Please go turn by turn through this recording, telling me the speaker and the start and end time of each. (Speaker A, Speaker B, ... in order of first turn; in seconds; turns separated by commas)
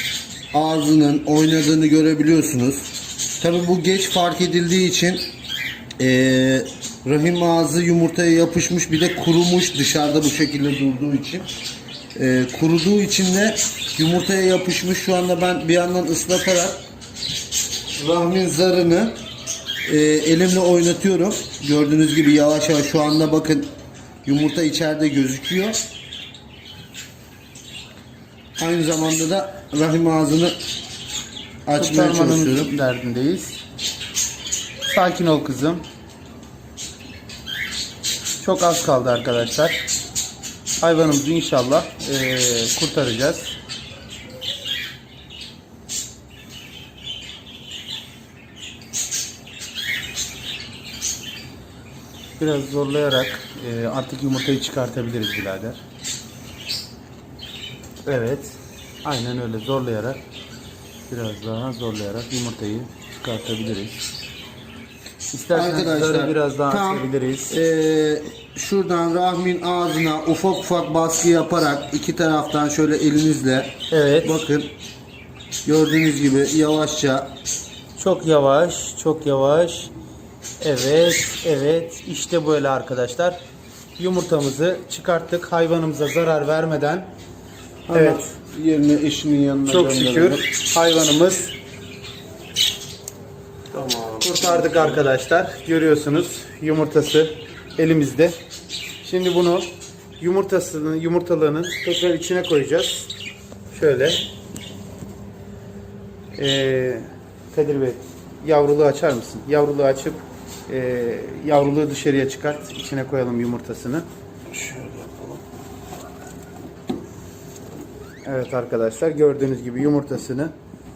Speaker A: 0.5-5.3, Speaker A: 6.0-11.5, Speaker A: 12.2-16.8, Speaker A: 18.0-19.1, Speaker A: 19.9-23.7, Speaker A: 24.2-25.8, Speaker A: 28.6-30.6, Speaker A: 31.7-32.7, Speaker B: 31.8-33.6, Speaker B: 34.9-35.8, Speaker B: 38.4-39.8, Speaker B: 40.8-43.5, Speaker B: 52.4-55.8, Speaker B: 58.0-60.2, Speaker B: 61.1-64.0, Speaker B: 65.3-67.6, Speaker A: 65.5-74.7, Speaker B: 73.9-74.4, Speaker A: 75.7-77.3, Speaker B: 78.0-79.9, Speaker B: 80.6-83.4, Speaker B: 84.0-87.1, Speaker A: 87.9-90.4, Speaker B: 87.9-88.2, Speaker B: 89.7-91.5, Speaker A: 93.7-95.0, Speaker B: 94.2-98.4, Speaker B: 99.0-103.1, Speaker B: 103.7-104.2, Speaker B: 106.3-114.0, Speaker A: 114.5-115.4, Speaker B: 118.2-120.5